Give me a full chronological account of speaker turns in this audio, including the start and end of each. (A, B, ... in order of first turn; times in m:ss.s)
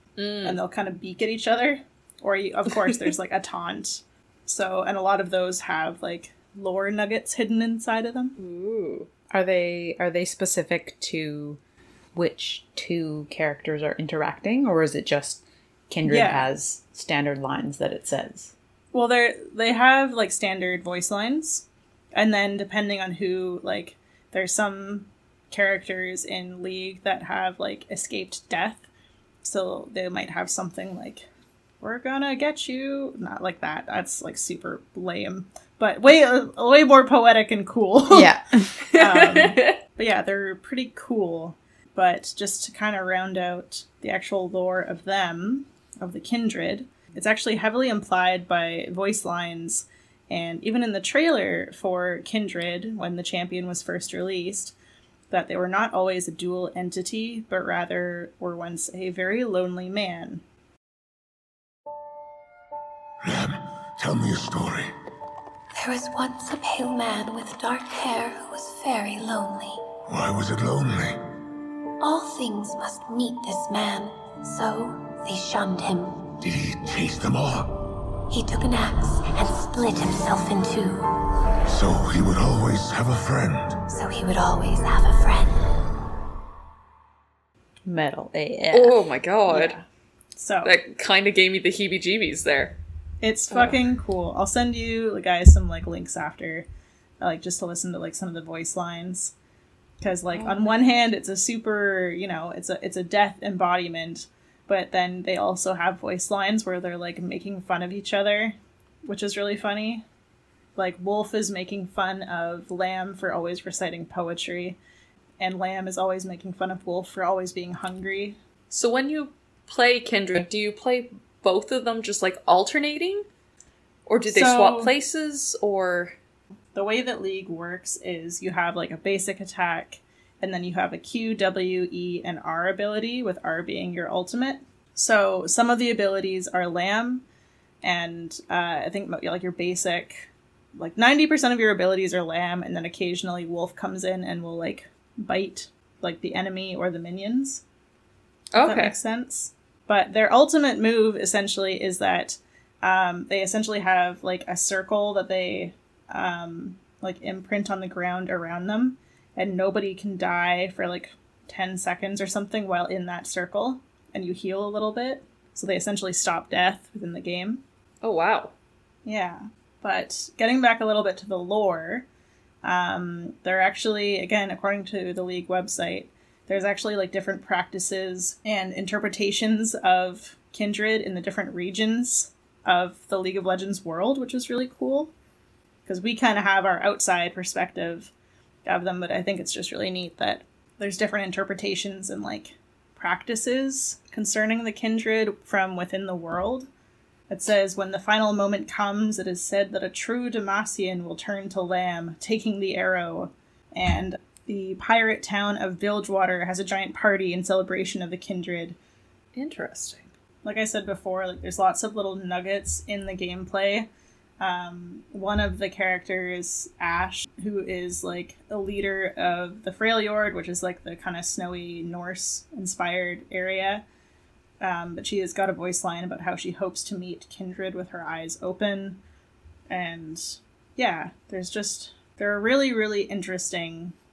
0:00.2-0:00.6 A
0:00.4-0:08.3 B
0:08.4-0:09.1 A
0:09.3-0:11.6 C
0:12.1-0:18.5 C
0:16.0-0:16.5 B
0:18.9-0:28.8 B
0:29.4-0:31.3 B
0:31.8-0:54.7 B
0:38.1-0:38.7 C
0:38.9-0:39.8 A
0:55.3-1:00.4 B
1:03.2-1:04.9 D
1:05.7-1:09.8 E
1:10.1-1:11.2 D
1:12.0-1:16.3 E
1:16.4-1:17.8 D
1:18.3-1:21.1 E
1:21.7-1:23.8 D
1:23.9-1:25.6 E
1:27.8-1:29.0 C
1:28.7-1:29.7 A
1:29.5-1:29.8 B
1:30.4-1:30.7 B
1:30.6-1:32.8 A
1:33.2-1:36.7 B
1:33.5-1:33.8 A
1:37.2-1:39.3 B
1:40.0-1:50.0 B
1:40.3-1:40.8 A
1:50.8-1:54.8 B
1:55.4-1:58.4 B
1:58.7-2:03.2 A
2:04.0-2:06.2 A
2:04.3-2:04.9 B
2:06.7-2:17.2 B
2:17.8-2:27.6 B
2:28.5-2:28.9 A
2:28.6-2:47.6 B
2:48.0-2:48.5 A
2:49.0-2:52.0 B
2:52.6-3:05.1 B
3:05.8-3:08.1 B
3:08.6-3:16.7 B
3:17.3-3:28.8 B
3:29.4-3:30.1 A
3:30.4-3:33.9 B
3:34.4-3:43.8 B
3:44.6-3:49.0 B
3:49.7-3:53.9 B